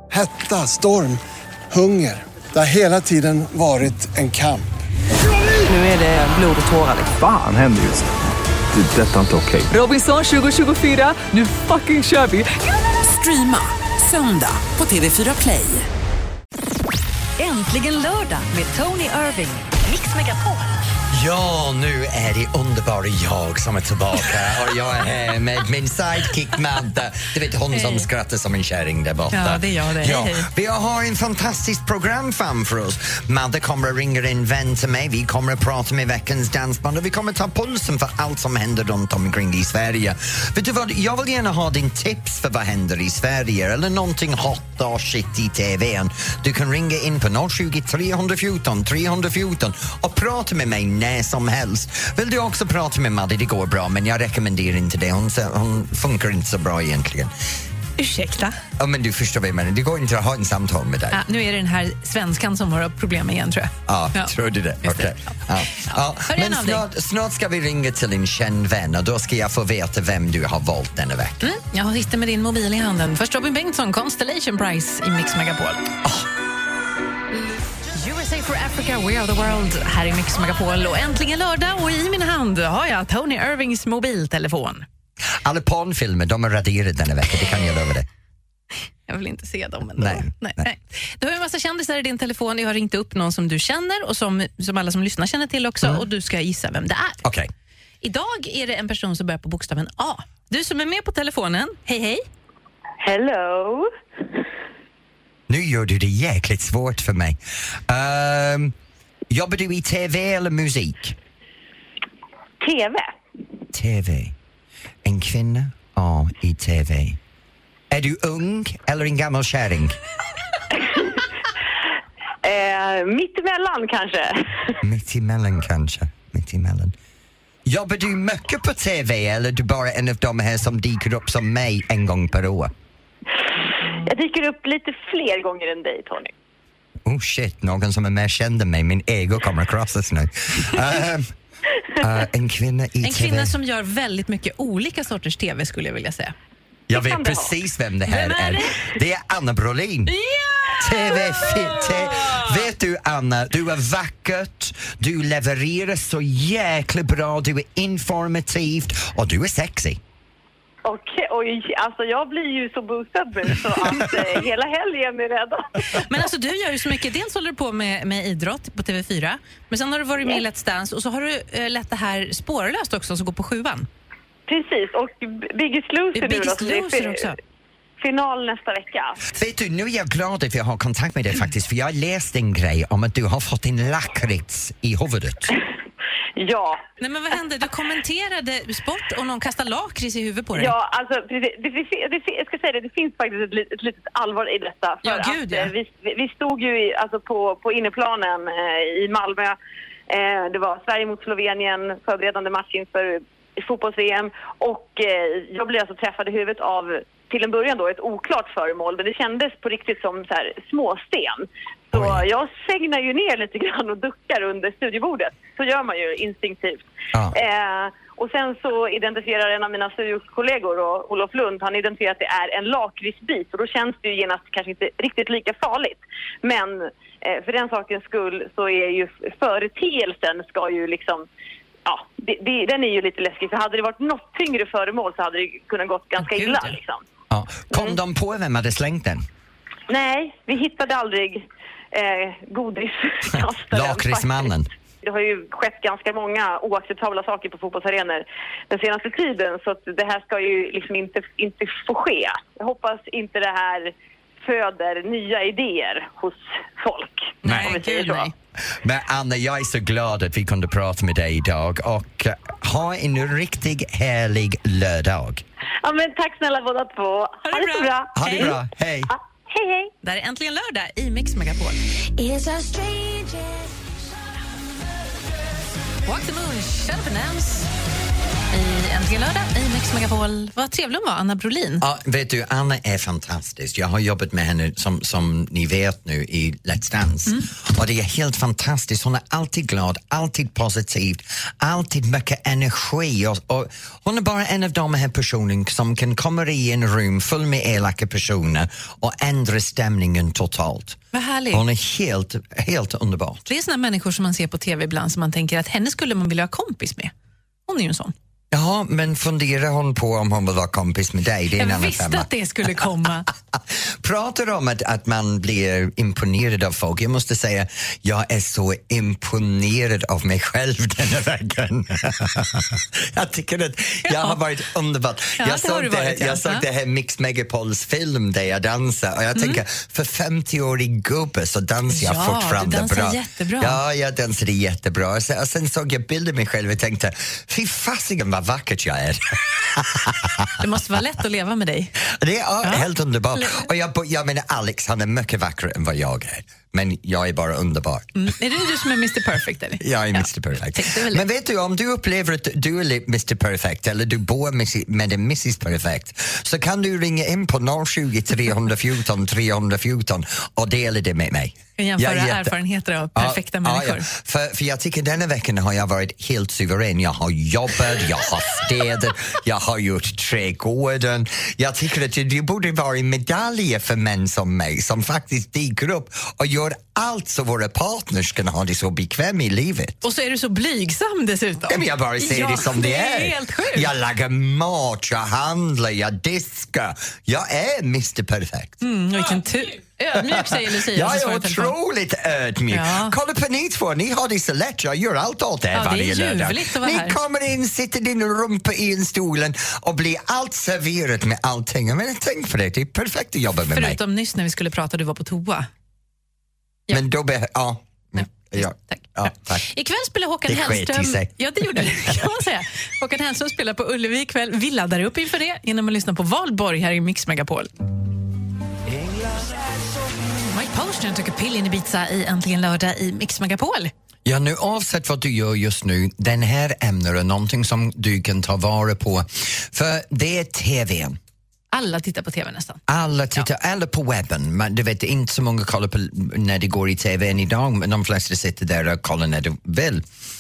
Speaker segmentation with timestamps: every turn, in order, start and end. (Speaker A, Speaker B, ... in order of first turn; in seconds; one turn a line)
Speaker A: 0.1-4.7
Speaker B: 5.7-7.2
Speaker C: 7.2-8.1
Speaker C: 8.7-9.7
Speaker B: 9.7-15.9
Speaker D: 17.4-20.8
Speaker E: 21.1-57.3
Speaker F: 27.7-28.1
Speaker F: 29.3-30.5
Speaker F: 58.0-58.6
Speaker E: 58.8-61.2
Speaker F: 61.1-64.3
Speaker E: 63.9-71.5
Speaker F: 65.8-66.8
Speaker F: 71.4-75.9
Speaker F: 77.9-84.9
Speaker E: 85.4-88.1
Speaker F: 89.1-97.2
Speaker E: 90.0-90.7
Speaker E: 97.2-97.5
Speaker F: 98.0-102.2
Speaker G: 103.0-103.9
Speaker E: 105.5-108.8
Speaker E: 109.3-111.2
Speaker G: 112.6-113.1
Speaker E: 113.7-114.3
Speaker E: 115.0-117.2
Speaker E: 117.9-120.0
Speaker G: 120.7-121.3
Speaker G: 122.4-124.8
Speaker E: 124.8-127.0
Speaker E: 127.7-132.7
Speaker G: 134.1-136.3
Speaker E: 137.1-141.3
Speaker E: 142.0-143.5
Speaker F: 143.0-146.3
Speaker E: 146.9-150.1
Speaker G: 146.9-147.5
Speaker F: 148.1-148.8
Speaker F: 150.1-152.5
Speaker E: 150.8-160.0
Speaker G: 160.8-166.0
Speaker F: 165.9-173.9
Speaker G: 174.5-177.4
Speaker F: 176.1-177.4
Speaker G: 178.0-179.2
Speaker E: 179.3-185.5
Speaker G: 186.4-186.8
Speaker F: 187.0-190.7
Speaker G: 190.6-199.6
Speaker F: 195.0-195.7
Speaker G: 200.1-231.3
Speaker E: 211.9-212.2
Speaker G: 231.8-237.0
Speaker F: 236.2-236.8
Speaker E: 237.3-239.3
Speaker G: 239.9-258.3
Speaker E: 243.4-244.7
Speaker E: 257.4-257.7
Speaker F: 257.4-258.3
Speaker E: 258.7-265.4
Speaker G: 265.8-268.6
Speaker F: 267.5-268.6
Speaker E: 268.2-269.1
Speaker G: 269.1-269.9
Speaker F: 270.0-271.8
Speaker D: 272.2-273.8
Speaker F: 276.1-277.7
Speaker F: 278.5-281.8
Speaker E: 281.8-301.0
Speaker F: 301.1-301.6
Speaker E: 301.5-303.5
Speaker F: 303.5-307.1
Speaker F: 307.7-308.1
Speaker E: 308.5-312.3
Speaker F: 311.6-313.3
Speaker E: 313.5-340.5
Speaker F: 324.1-324.4
Speaker F: 325.4-326.6
Speaker F: 329.4-329.6
Speaker F: 331.9-333.8
Speaker F: 340.6-341.9
Speaker E: 342.1-348.1
Speaker F: 342.6-343.7
Speaker F: 348.1-351.2
Speaker E: 349.8-362.6
Speaker F: 361.8-364.1
Speaker E: 363.1-380.0
Speaker F: 380.0-383.9
Speaker E: 381.7-388.8
Speaker F: 388.8-391.7
Speaker E: 390.1-404.0
Speaker F: 392.7-393.1
Speaker F: 395.7-397.2
Speaker F: 403.7-405.7
Speaker E: 406.9-409.7
Speaker F: 408.2-417.7
Speaker E: 410.5-412.1
Speaker E: 419.0-419.3
Speaker F: 420.5-423.9
Speaker E: 424.2-431.2
Speaker F: 431.7-432.8
Speaker E: 432.9-440.0